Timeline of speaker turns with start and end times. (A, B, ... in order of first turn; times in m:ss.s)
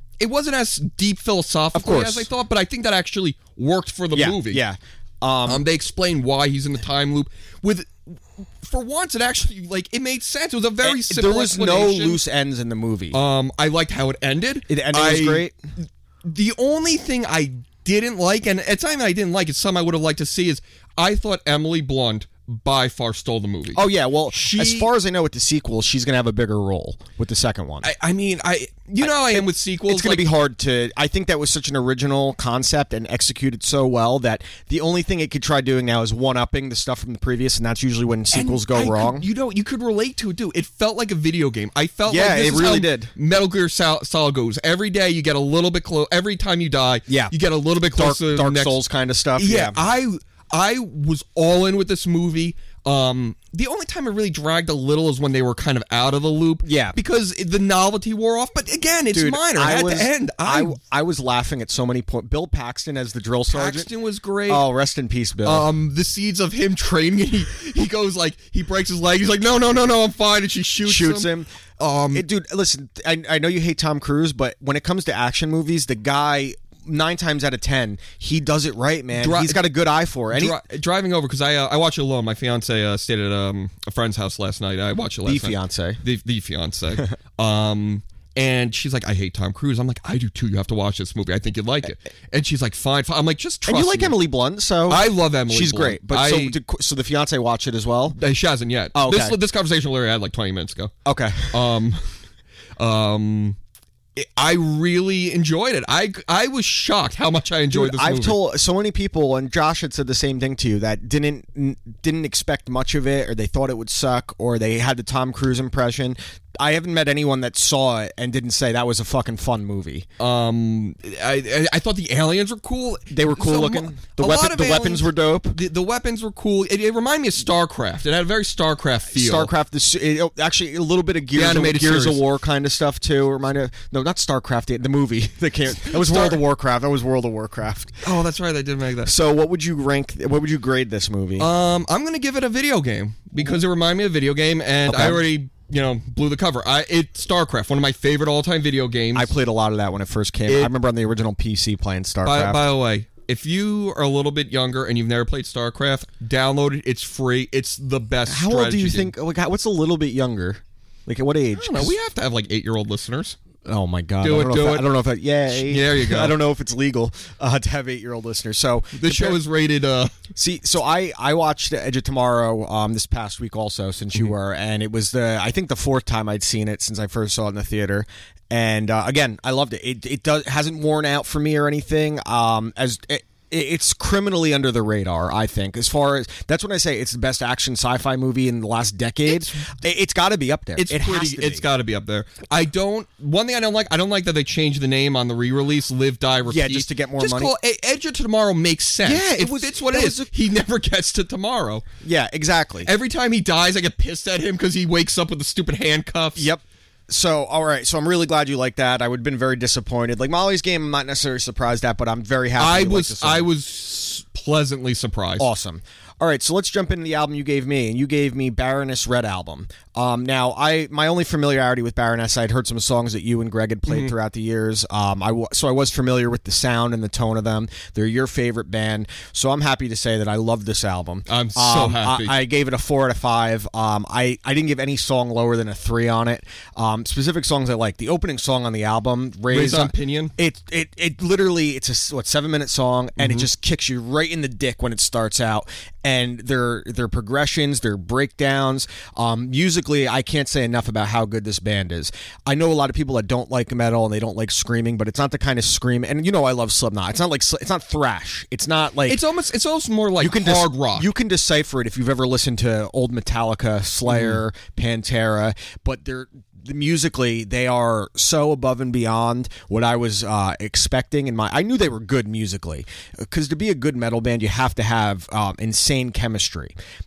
0:00.2-0:04.6 A
0:01.8-0:02.3 B
0:04.1-0:05.6 B
0:05.5-0:12.2 A
0:10.8-0:13.2 B
0:13.1-0:24.9 A
0:14.7-0:15.6 B
0:23.7-0:27.9 B
0:27.8-0:30.3 A
0:29.0-0:39.3 B
0:38.3-0:48.8 A
0:42.1-0:43.1 B
0:47.1-0:47.3 B
0:47.9-0:49.8 B
0:49.4-1:00.8 A
0:56.6-0:57.0 B
0:59.1-1:03.9 B
1:03.5-1:04.7 A
1:04.5-1:05.7 B
1:05.4-1:12.3 A
1:10.8-1:11.5 B
1:12.1-1:20.6 B
1:19.2-1:19.6 A
1:20.3-1:34.2 A
1:25.2-1:26.0 B
1:33.7-1:38.2 B
1:34.9-1:36.6 A
1:38.1-1:40.9 A
1:38.9-1:39.4 B
1:41.0-1:41.6 B
1:41.5-1:42.0 A
1:42.8-1:43.6 A
1:44.2-1:48.4 A
1:47.7-2:00.1 B
2:00.2-2:09.5 A
2:03.1-2:05.6 B
2:09.1-2:18.0 B
2:11.3-2:12.2 A
2:15.8-2:16.4 A
2:18.0-2:19.1 A
2:19.1-2:21.5 B
2:21.4-2:29.3 A
2:24.9-2:25.2 B
2:29.1-2:32.6 B
2:30.5-2:30.7 A
2:32.2-2:39.1 A
2:38.3-2:42.0 B
2:41.5-2:43.4 A
2:43.6-2:49.4 B
2:44.2-2:44.9 A
2:45.5-2:46.4 A
2:48.9-2:50.2 A
2:50.4-3:11.6 B
3:09.3-3:09.7 A
3:10.8-3:21.8 A
3:16.5-3:17.5 B
3:19.0-3:20.3 B
3:22.0-3:22.9 B
3:22.8-3:26.5 A
3:26.4-3:33.5 B
3:32.6-3:35.5 A
3:35.4-4:19.2 B
3:51.3-3:52.3 A
3:59.5-4:00.3 A
4:03.2-4:03.5 A
4:19.1-4:21.1 A
4:20.2-4:36.7 B
4:24.1-4:24.4 A